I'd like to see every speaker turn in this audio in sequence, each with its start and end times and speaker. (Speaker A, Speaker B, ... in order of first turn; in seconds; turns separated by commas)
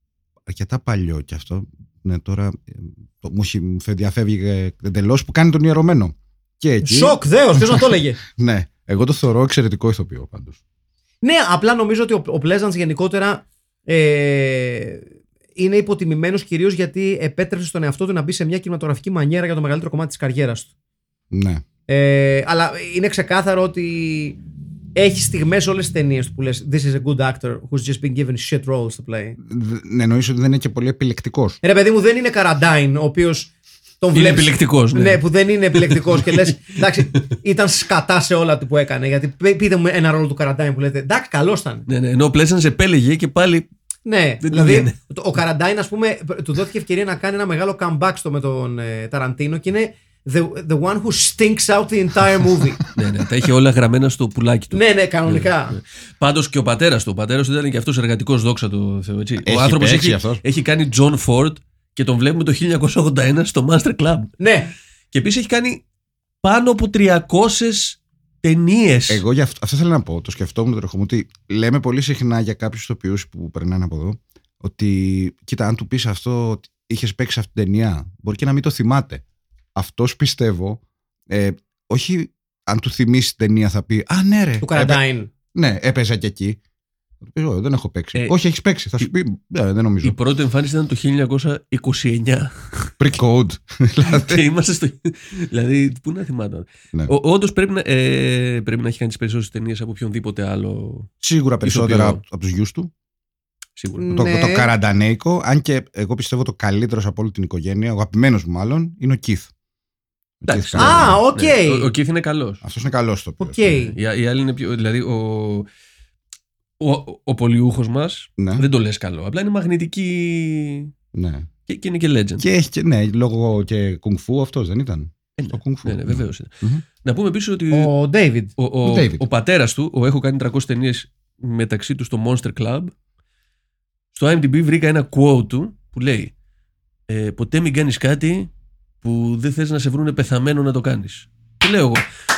Speaker A: 0.5-10.6, Speaker B: 6.8-8.2, Speaker B: 11.2-20.7, Speaker A: 21.3-21.6, Speaker B: 21.9-24.4, Speaker B: 24.9-29.4, Speaker A: 29.4-31.6, Speaker B: 31.6-41.9, Speaker C: 34.1-35.2, Speaker C: 35.8-36.4, Speaker C: 41.9-43.7, Speaker B: 44.0-52.8, Speaker C: 44.4-45.0, Speaker C: 52.9-64.4, Speaker B: 54.7-55.8, Speaker A: 59.4-60.4, Speaker B: 64.4-64.7, Speaker C: 65.1-65.8, Speaker C: 66.4-69.2, Speaker A: 69.1-79.2, Speaker A: 79.8-85.0, Speaker B: 84.6-85.3, Speaker A: 85.5-86.6, Speaker A: 87.2-90.2, Speaker C: 90.0-92.9, Speaker A: 93.0-94.4, Speaker C: 94.0-101.1, Speaker A: 101.2-102.9, Speaker C: 101.6-102.2, Speaker C: 103.8-104.1, Speaker B: 104.0-104.7, Speaker A: 104.1-109.5, Speaker A: 110.4-111.2, Speaker C: 110.5-112.6, Speaker B: 110.8-111.9, Speaker A: 112.6-113.8, Speaker B: 113.4-114.0, Speaker C: 113.8-115.7, Speaker C: 116.8-120.9, Speaker A: 118.4-118.7, Speaker A: 121.1-121.5, Speaker C: 121.7-122.5, Speaker A: 122.4-126.8, Speaker C: 125.4-127.9, Speaker B: 127.7-128.5, Speaker C: 128.6-132.9, Speaker A: 128.8-129.2, Speaker C: 134.1-136.3, Speaker C: 137.1-138.5, Speaker C: 139.0-142.1